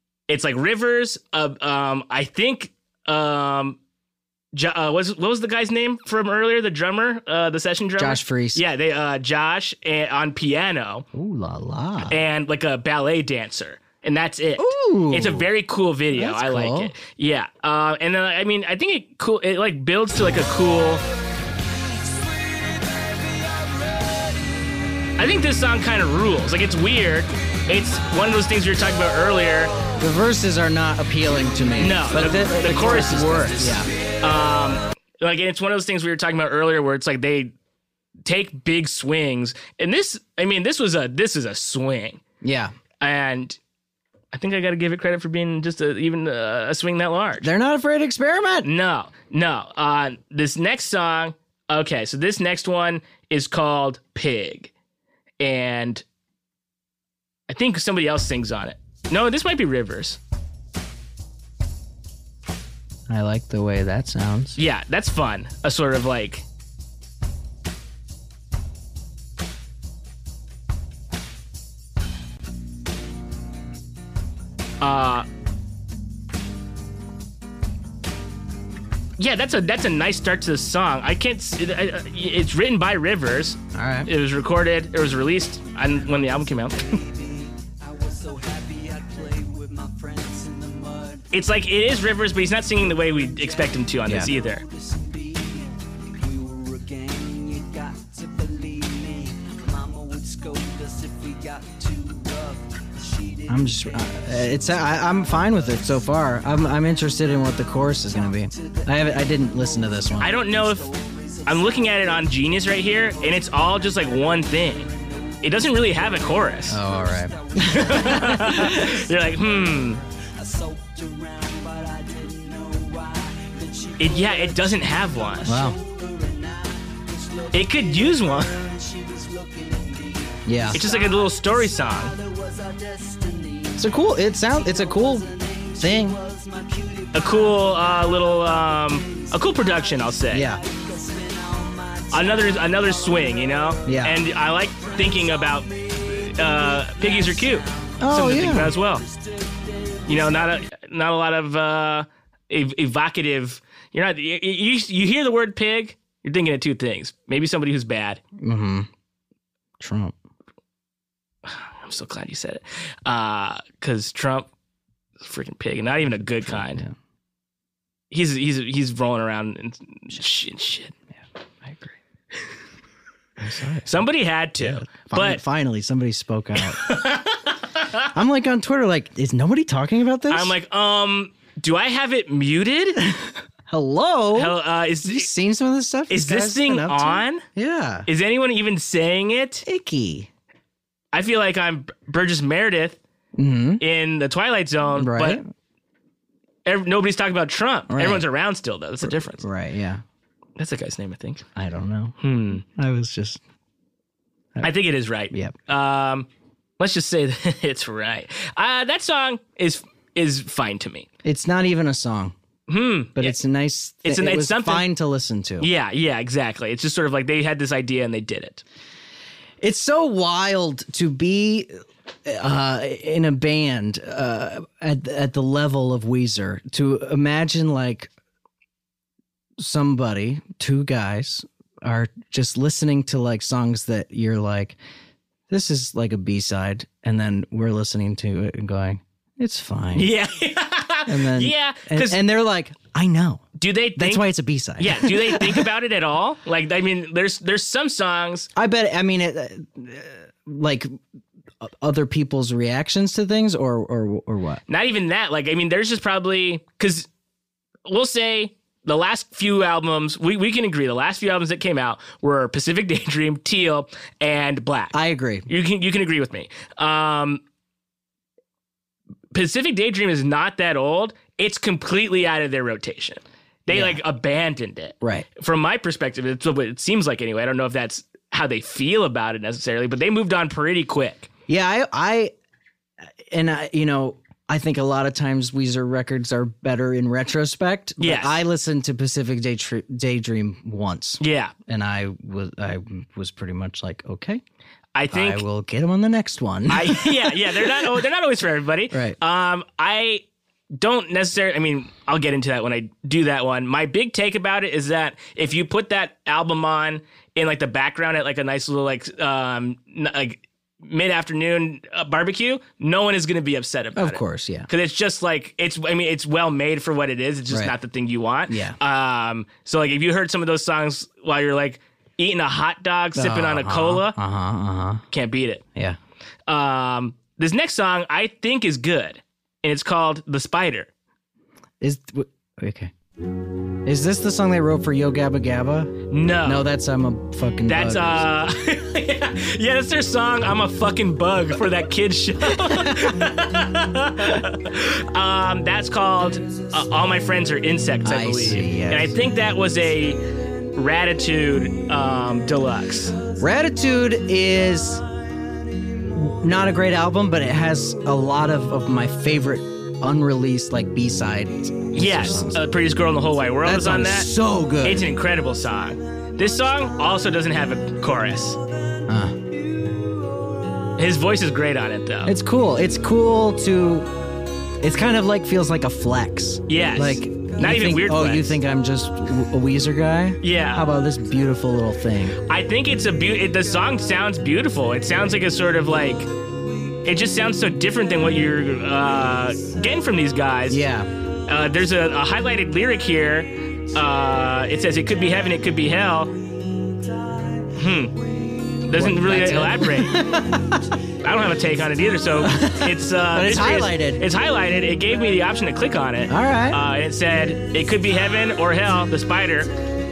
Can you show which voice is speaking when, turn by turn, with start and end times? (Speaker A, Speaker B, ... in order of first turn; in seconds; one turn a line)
Speaker A: 0.3-3.8
Speaker A: 4.5-11.1
Speaker B: 8.0-8.6
Speaker B: 11.1-12.2
Speaker A: 12.1-21.0
Speaker B: 14.6-15.5
Speaker B: 16.1-16.9
Speaker C: 21.9-24.3
Speaker A: 25.2-29.7
Speaker B: 30.0-33.9
Speaker A: 31.8-37.5
Speaker A: 38.2-42.2
Speaker B: 42.4-42.7
Speaker A: 43.0-43.6
Speaker A: 44.3-47.5
Speaker B: 47.4-48.7
Speaker A: 48.6-54.7
Speaker A: 55.4-56.0
Speaker A: 57.5-60.2
Speaker B: 63.1-64.6
Speaker A: 64.5-66.4
Speaker A: 74.8-75.2
Speaker A: 79.2-87.0
Speaker B: 83.7-84.1
Speaker C: 85.8-91.3
Speaker A: 91.3-94.6
Speaker C: 92.8-150.6
Speaker B: 103.5-110.3
Speaker A: 110.2-110.9
Speaker A: 111.5-114.9
Speaker A: 115.4-116.8
Speaker B: 116.7-119.0
Speaker A: 117.6-120.0
Speaker A: 124.0-125.6
Speaker B: 125.5-125.8
Speaker A: 127.5-128.5
Speaker B: 130.4-130.8
Speaker A: 130.7-132.1
Speaker B: 133.8-136.2
Speaker A: 137.1-140.5
Speaker B: 140.3-140.6
Speaker A: 142.1-149.0
Speaker B: 143.8-144.2
Speaker B: 148.0-148.7
Speaker A: 150.1-158.2
Speaker B: 158.4-158.9
Speaker B: 159.8-160.2
Speaker A: 161.4-164.5
Speaker A: 165.2-166.8
Speaker B: 166.1-166.9
Speaker A: 168.1-170.9
Speaker B: 171.6-171.9
Speaker B: 173.4-174.0
Speaker A: 173.8-175.4
Speaker B: 174.6-176.8
Speaker A: 176.6-178.0
Speaker B: 178.1-180.5
Speaker A: 180.3-183.1
Speaker B: 183.7-188.1
Speaker A: 184.3-185.3
Speaker A: 186.1-187.4
Speaker A: 188.1-189.6
Speaker B: 189.6-190.3
Speaker A: 191.1-193.0
Speaker B: 193.4-193.8
Speaker A: 193.8-195.4
Speaker B: 194.9-195.4
Speaker A: 196.6-199.4
Speaker B: 197.9-198.2
Speaker B: 199.0-200.0
Speaker A: 200.6-201.4
Speaker B: 201.6-203.4
Speaker A: 202.2-202.6
Speaker A: 204.6-206.3
Speaker A: 206.8-211.1
Speaker B: 211.2-212.3
Speaker A: 212.7-213.4
Speaker B: 213.1-215.7
Speaker A: 214.0-214.9
Speaker A: 215.6-218.6
Speaker B: 219.6-221.7
Speaker B: 222.2-228.1
Speaker B: 229.6-234.8
Speaker B: 235.5-240.1
Speaker A: 239.9-242.2
Speaker B: 241.1-245.7
Speaker A: 243.6-244.2
Speaker A: 244.8-248.5
Speaker B: 248.6-250.9
Speaker B: 251.6-254.6
Speaker A: 254.7-257.1
Speaker A: 257.9-267.4
Speaker B: 264.9-265.4
Speaker A: 269.3-281.3
Speaker B: 273.7-274.0
Speaker B: 275.0-275.3
Speaker B: 281.5-282.3
Speaker B: 283.2-294.4
Speaker A: 288.0-288.4
Speaker A: 291.2-291.5
Speaker A: 294.9-295.4
Speaker B: 295.1-297.9
Speaker A: 296.7-300.2
Speaker B: 298.9-299.1
Speaker A: 300.8-324.2
Speaker B: 313.9-314.7
Speaker B: 318.5-318.8
Speaker B: 323.1-325.0
Speaker A: 325.1-325.6
Speaker A: 326.5-330.9
Speaker B: 331.8-332.9
Speaker B: 333.9-335.9
Speaker A: 336.1-336.6
Speaker B: 336.4-338.3
Speaker A: 337.7-350.2
Speaker B: 342.5-343.2
Speaker C: 346.5-346.7
Speaker B: 348.0-349.2
Speaker A: 350.7-353.2
Speaker C: 353.1-353.8
Speaker B: 353.4-355.0
Speaker C: 354.7-356.3
Speaker B: 356.1-362.6
Speaker A: 361.9-364.3
Speaker B: 363.6-365.1
Speaker A: 364.8-368.6
Speaker B: 369.1-369.4
Speaker A: 371.0-372.3
Speaker B: 372.2-374.1
Speaker B: 374.8-382.4
Speaker A: 376.7-378.6
Speaker A: 380.4-380.9
Speaker A: 382.5-386.3
Speaker A: 387.0-390.8
Speaker B: 390.7-391.1
Speaker A: 391.5-396.3
Speaker C: 396.7-398.8
Speaker A: 397.7-398.2
Speaker A: 398.8-400.4
Speaker B: 398.9-400.8
Speaker C: 400.3-400.8
Speaker A: 401.2-409.7
Speaker B: 402.4-404.2
Speaker B: 406.3-406.8
Speaker C: 407.6-408.9